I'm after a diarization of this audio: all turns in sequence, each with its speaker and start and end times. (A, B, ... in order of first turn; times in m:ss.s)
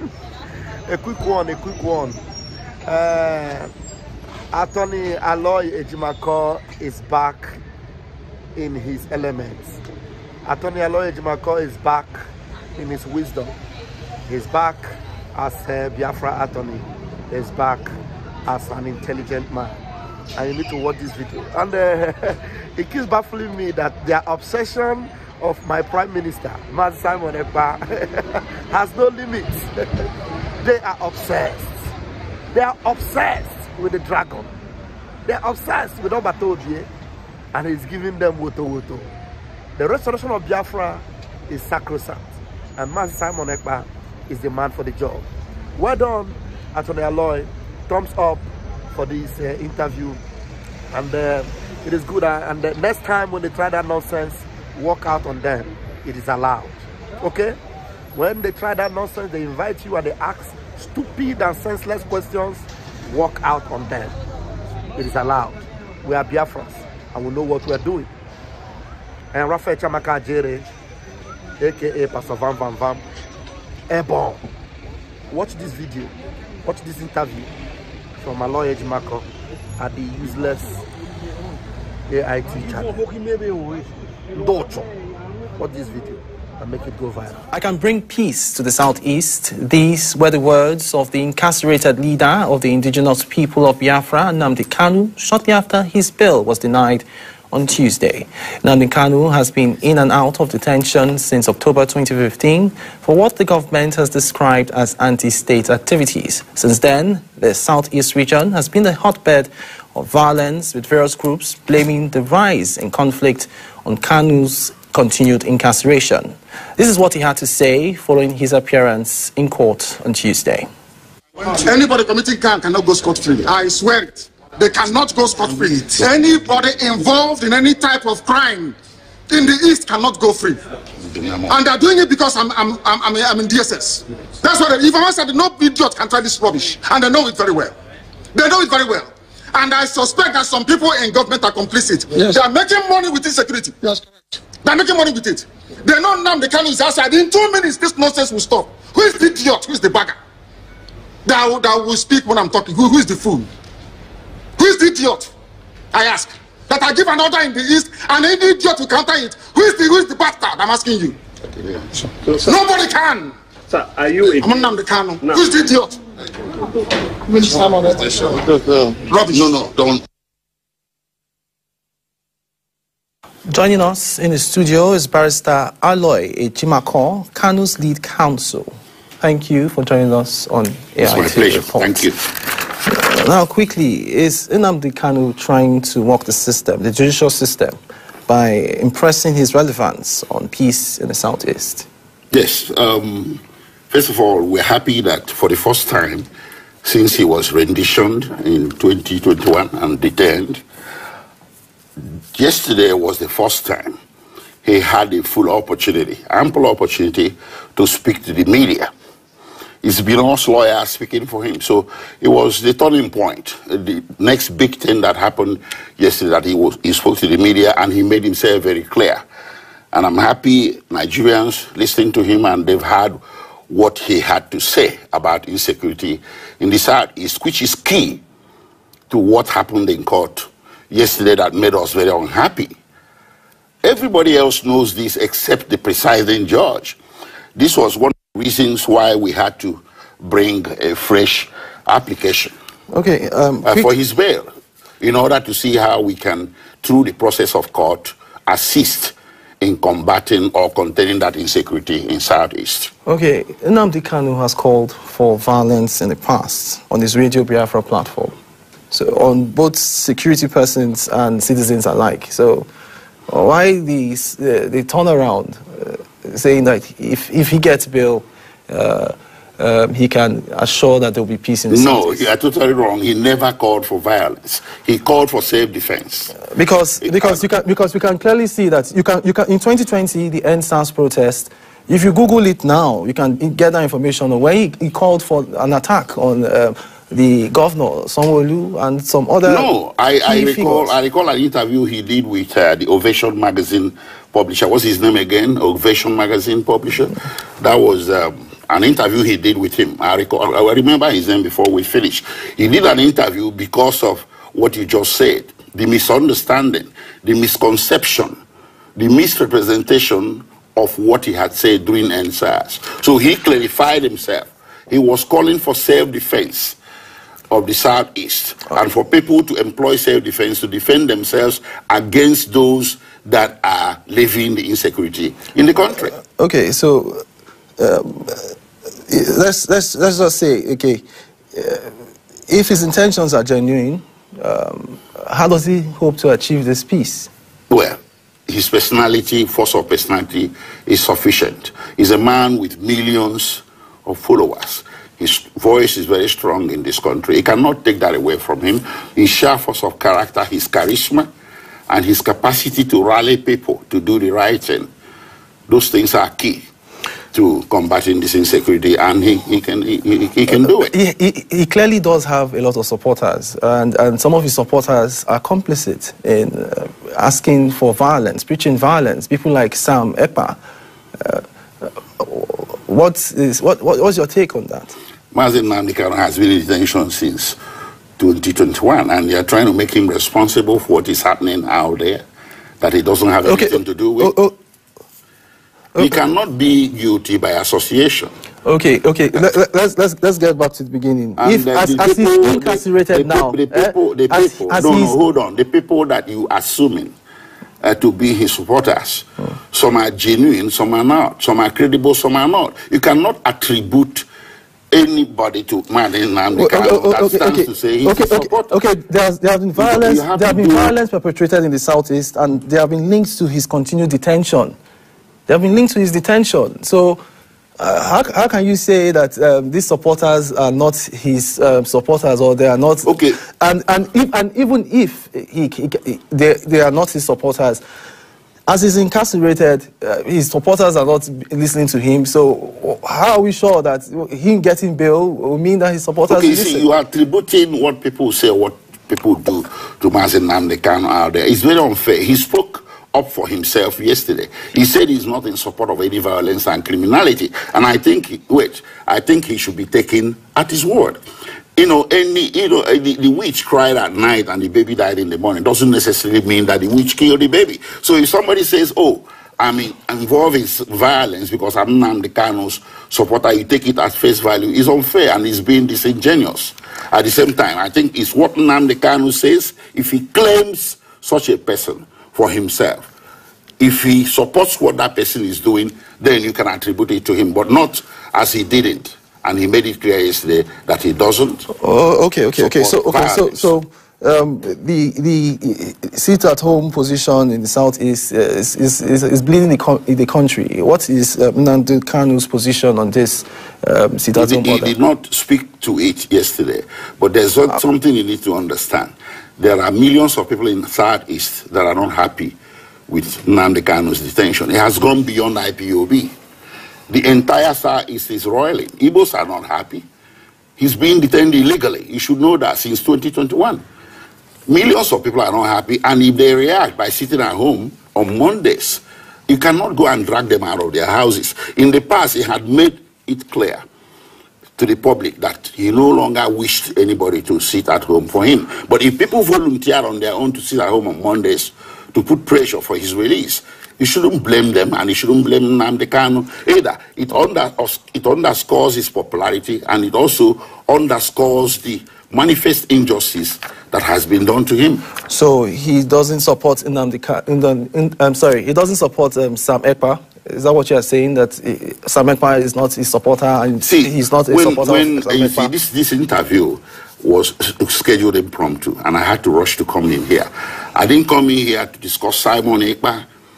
0:00.9-0:02.2 A
0:02.8-0:03.7 A
0:04.5-0:07.6 A
0:08.6-0:09.8 A
0:10.4-0:12.2 A
0:12.8-0:13.6 A
0:14.3-0:19.8 A
0:20.4-0:29.7 A
0:30.6-0:31.7 A
0:32.5-0:34.5 A
0:35.2-0:36.9 A
0:37.5-0:39.1 A
0:39.8-0:45.2 A
0:45.8-0:50.2 A
0:50.9-0:57.6 A
0:58.1-1:04.1 A
1:05.0-1:08.1 A
1:09.3-1:10.7 A
1:11.6-1:13.0 A
1:13.9-1:14.4 A
1:15.3-1:17.5 A
1:18.2-1:19.2 A
1:19.8-1:20.8 A
1:22.1-1:24.9 A
1:25.6-1:27.4 A
1:27.5-2:00.7 B
2:01.4-2:08.8 C
2:09.3-2:10.6 C
2:11.0-2:11.5 D
2:11.5-2:17.7 C
2:18.3-2:24.0 C
2:24.6-2:30.2 C
2:31.2-2:33.5 C
2:34.6-2:35.3 C
2:35.9-2:41.2 C
2:41.6-2:41.8 D
2:42.2-2:42.5 E
2:42.3-2:43.4 C
2:43.7-2:44.6 E
2:44.3-2:46.0 C
2:47.3-2:47.8 C
2:47.7-2:49.0 E
2:49.0-2:49.5 C
2:49.3-2:50.0 D
2:53.5-2:58.7 B
2:59.2-3:02.1 B
3:01.0-3:02.2 D
3:02.8-3:11.9 B
3:12.3-3:16.2 D
3:16.8-3:20.6 D
3:22.3-3:24.0 D
3:24.6-3:28.9 D
3:29.8-3:39.2 D
3:39.9-3:43.2 D
3:43.7-3:48.2 D
3:49.1-3:52.7 D
3:53.8-3:57.0 D
3:57.6-4:02.5 D
4:02.9-4:03.9 B
4:03.6-4:04.5 D
4:05.0-4:12.9 D
4:13.0-4:18.3 B
4:18.9-4:22.7 B
4:23.3-4:32.2 B
4:31.7-4:36.4 D
4:36.4-4:49.7 B
4:37.0-4:37.4 D
4:49.4-5:08.4 D
4:50.2-4:50.9 B
5:09.0-5:16.8 D
5:17.5-5:26.1 D
5:26.2-5:27.2 B
5:27.8-5:31.9 B
5:32.5-5:37.3 B
5:37.7-5:51.3 D
5:51.9-5:54.9 D
5:55.7-5:56.7 D
5:57.3-6:00.9 D
6:00.5-6:10.6 B
6:11.2-6:14.9 B
6:15.3-6:17.6 D
6:18.2-6:22.2 D
6:22.8-6:24.3 D
6:23.4-6:24.5 B
6:26.0-6:28.3 D
6:28.6-6:35.2 B
6:31.4-6:37.1 D
6:37.8-6:44.3 D
6:44.9-6:48.7 D
6:46.5-6:54.7 B
6:49.8-6:50.9 D
6:55.5-6:57.2 B
6:57.8-7:07.8 B
7:03.0-7:03.4 D
7:08.7-7:16.9 B
7:16.3-7:31.2 D
7:31.8-7:53.1 D
7:53.8-8:01.7 D
8:01.8-8:14.9 B
8:02.5-8:03.7 D
8:14.3-8:22.6 D
8:23.1-8:26.3 D
8:27.1-8:30.0 D
8:30.8-8:33.8 D
8:34.7-8:43.8 D
8:44.8-9:05.0 D
9:05.2-9:15.7 B
9:13.8-9:23.2 D